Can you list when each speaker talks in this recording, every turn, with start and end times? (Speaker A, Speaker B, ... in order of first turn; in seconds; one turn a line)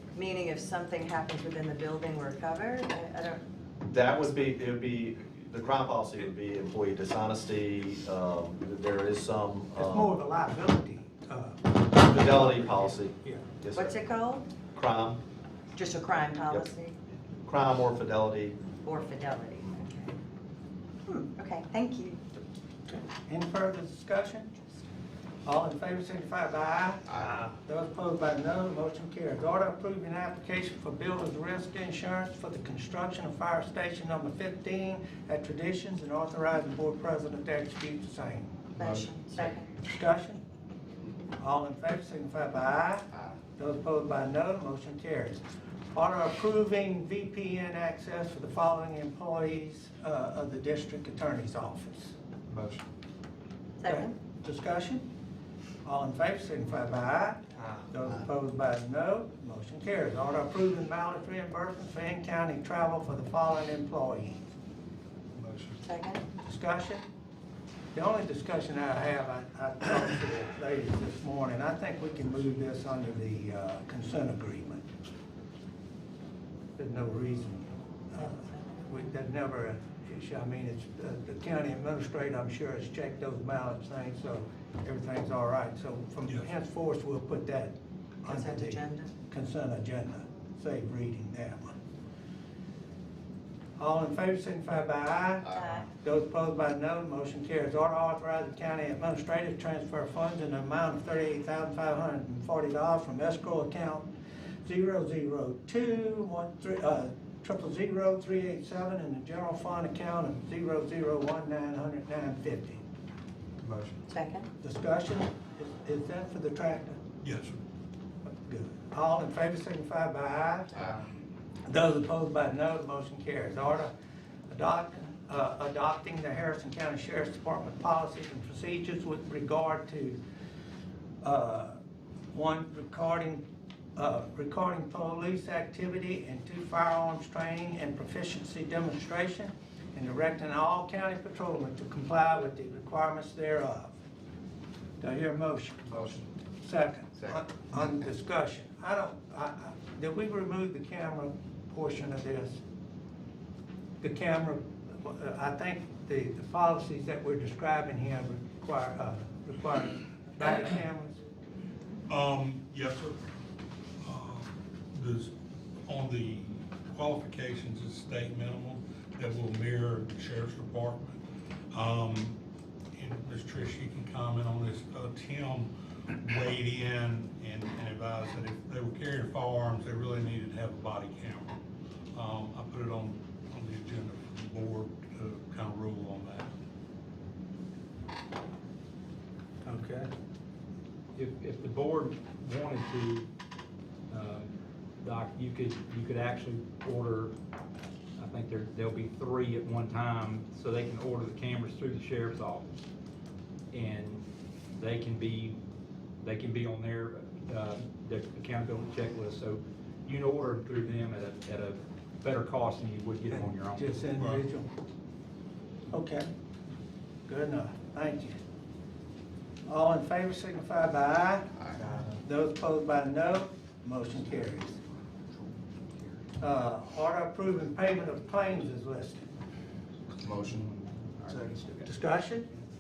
Speaker A: 0.1-3.4
Speaker B: 3.8-10.1
Speaker C: 9.8-13.5
Speaker B: 12.0-14.0
Speaker A: 13.8-14.4
Speaker B: 14.8-15.2
Speaker A: 15.7-16.9
Speaker B: 17.5-18.6
Speaker A: 18.8-20.1
Speaker A: 21.1-22.2
Speaker C: 22.9-24.5
Speaker C: 25.4-38.6
Speaker D: 38.8-39.4
Speaker A: 39.0-39.3
Speaker C: 39.8-40.4
Speaker C: 41.4-52.1
Speaker D: 52.5-52.8
Speaker A: 53.8-54.1
Speaker C: 53.8-55.1
Speaker C: 55.8-64.4
Speaker D: 65.4-65.8
Speaker C: 66.4-67.1
Speaker C: 67.9-74.8
Speaker C: 76.8-91.8
Speaker E: 86.3-86.5
Speaker A: 88.3-89.1
Speaker C: 93.8-104.1
Speaker D: 95.5-95.7
Speaker A: 95.5-95.8
Speaker C: 104.7-112.8
Speaker D: 113.7-114.0
Speaker C: 114.6-117.0
Speaker E: 117.2-117.6
Speaker C: 118.2-121.0
Speaker C: 121.7-123.9
Speaker C: 124.5-130.2
Speaker C: 131.2-131.8
Speaker C: 132.3-133.4
Speaker C: 134.0-144.0
Speaker C: 145.0-145.9
Speaker D: 145.9-146.3
Speaker C: 146.6-152.6
Speaker C: 154.0-161.2
Speaker E: 162.1-163.1
Speaker E: 164.0-165.3
Speaker E: 165.9-172.4
Speaker E: 173.0-181.6
Speaker E: 182.1-186.5
Speaker C: 189.7-190.1
Speaker F: 191.2-193.2
Speaker F: 194.1-194.4
Speaker F: 195.0-197.3
Speaker F: 198.2-202.7
Speaker F: 203.7-204.2
Speaker F: 204.8-205.6
Speaker F: 206.2-213.8
Speaker C: 213.3-214.7
Speaker E: 214.2-214.4
Speaker C: 215.9-216.3
Speaker C: 217.3-218.4
Speaker C: 219.7-221.5
Speaker D: 221.6-222.1
Speaker C: 222.1-224.8
Speaker C: 226.4-229.2
Speaker D: 230.2-230.8
Speaker D: 231.3-231.8
Speaker C: 231.8-232.5